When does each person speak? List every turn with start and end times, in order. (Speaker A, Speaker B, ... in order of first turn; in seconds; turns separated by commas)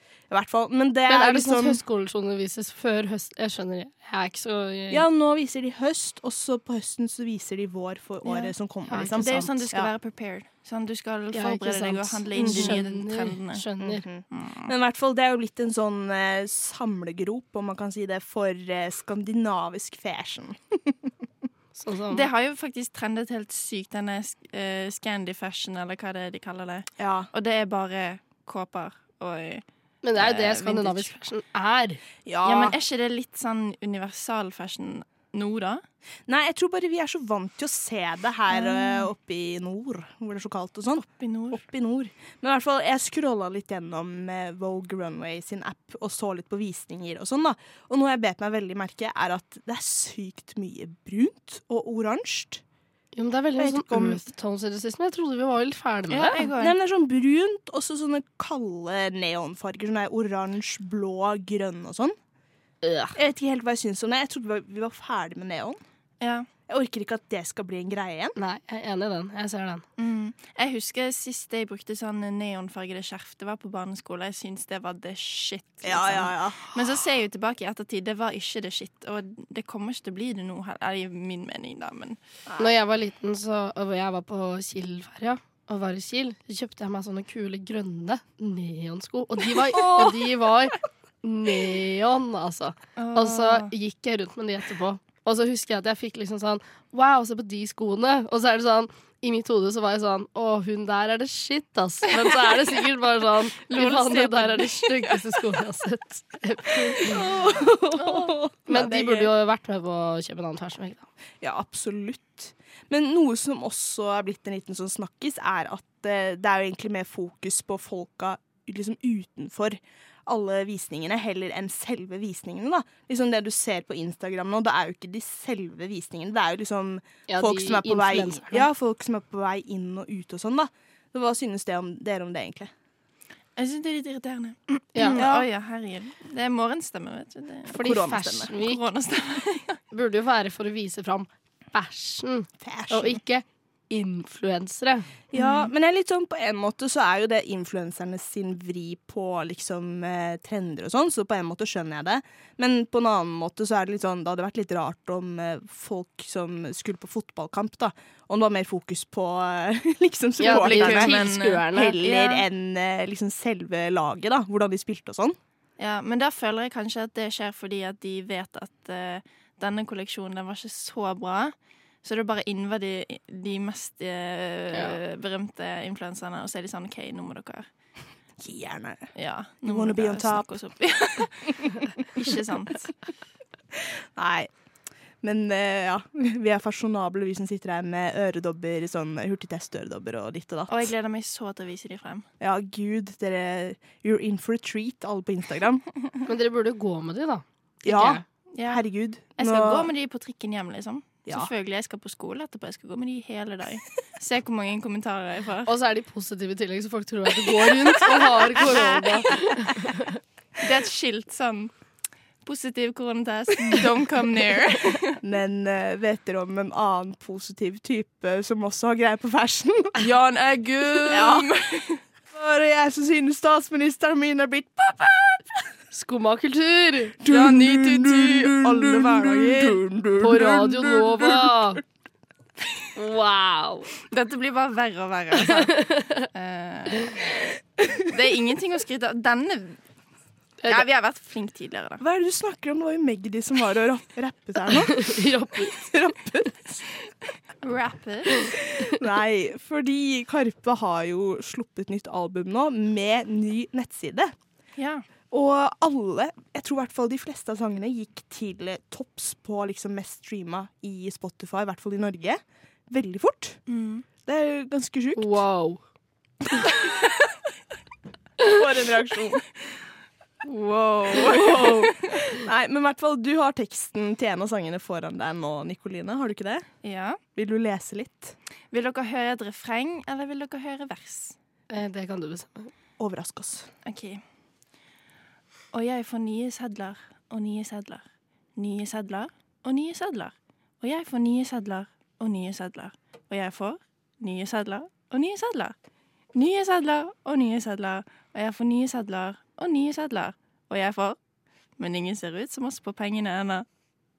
Speaker A: 0.3-1.8, Speaker B: 1.1-5.1, Speaker A: 4.9-9.9, Speaker B: 8.4-9.5, Speaker C: 9.1-13.7, Speaker B: 11.3-14.1, Speaker A: 12.4-12.8, Speaker A: 13.8-20.6, Speaker C: 14.3-14.7, Speaker B: 21.8-22.3, Speaker C: 22.1-29.6, Speaker A: 27.0-27.2, Speaker B: 30.0-32.0, Speaker C: 30.1-31.1, Speaker A: 32.3-32.7, Speaker C: 32.4-35.8, Speaker A: 36.3-52.6, Speaker C: 41.2-41.6, Speaker B: 53.1-56.5, Speaker A: 53.6-54.2, Speaker C: 56.1-56.8, Speaker A: 56.6-62.1, Speaker B: 62.8-63.1, Speaker A: 63.1-65.8, Speaker C: 66.2-66.5, Speaker A: 66.7-68.3, Speaker B: 68.3-69.8, Speaker C: 70.0-82.2, Speaker A: 75.8-76.5, Speaker B: 82.6-107.2, Speaker A: 89.7-90.3, Speaker C: 93.0-93.7, Speaker C: 103.6-105.3, Speaker A: 107.1-109.3, Speaker C: 108.0-108.3, Speaker B: 108.7-111.1, Speaker A: 111.4-112.4, Speaker A: 112.9-132.7, Speaker B: 127.3-128.7, Speaker C: 133.6-137.8, Speaker B: 134.9-135.2, Speaker A: 135.2-135.5, Speaker B: 137.7-138.8, Speaker A: 137.8-138.5, Speaker C: 138.5-139.8, Speaker B: 139.9-145.1, Speaker A: 142.7-143.2, Speaker A: 145.3-165.3, Speaker C: 145.3-145.7, Speaker B: 160.4-162.2, Speaker C: 160.4-162.4, Speaker C: 165.8-177.7, Speaker B: 174.7-175.0, Speaker A: 178.4-179.0, Speaker C: 179.2-182.9, Speaker A: 179.7-180.5, Speaker A: 184.2-184.5, Speaker A: 185.2-190.8, Speaker C: 190.7-192.3, Speaker A: 192.4-195.8, Speaker B: 196.2-198.2, Speaker A: 197.8-199.8, Speaker C: 198.5-198.8, Speaker C: 199.3-205.7, Speaker B: 205.7-210.1, Speaker C: 210.6-211.7, Speaker C: 212.4-215.2, Speaker A: 215.2-220.0, Speaker C: 220.0-222.0, Speaker A: 221.1-221.5, Speaker A: 222.3-225.4, Speaker B: 225.9-227.2, Speaker A: 227.2-231.4, Speaker C: 227.2-229.8, Speaker B: 230.2-231.8, Speaker B: 232.9-233.9, Speaker C: 234.1-237.3, Speaker B: 235.4-236.3, Speaker C: 238.1-239.8, Speaker C: 240.7-242.0, Speaker A: 242.0-245.2, Speaker B: 244.7-245.8, Speaker A: 245.8-246.5, Speaker C: 247.6-248.5, Speaker A: 249.0-254.3, Speaker C: 254.8-255.1, Speaker A: 255.3-262.4, Speaker A: 262.9-263.5, Speaker C: 263.7-264.0, Speaker A: 264.3-265.3, Speaker B: 265.1-265.8, Speaker A: 268.4-269.4, Speaker A: 270.4-276.6, Speaker C: 276.8-277.2, Speaker A: 277.4-278.2, Speaker C: 278.7-281.4, Speaker B: 281.7-282.7, Speaker A: 283.0-283.6, Speaker C: 283.8-284.2, Speaker C: 285.7-288.0, Speaker C: 288.6-295.7, Speaker C: 296.3-301.2, Speaker C: 301.8-303.6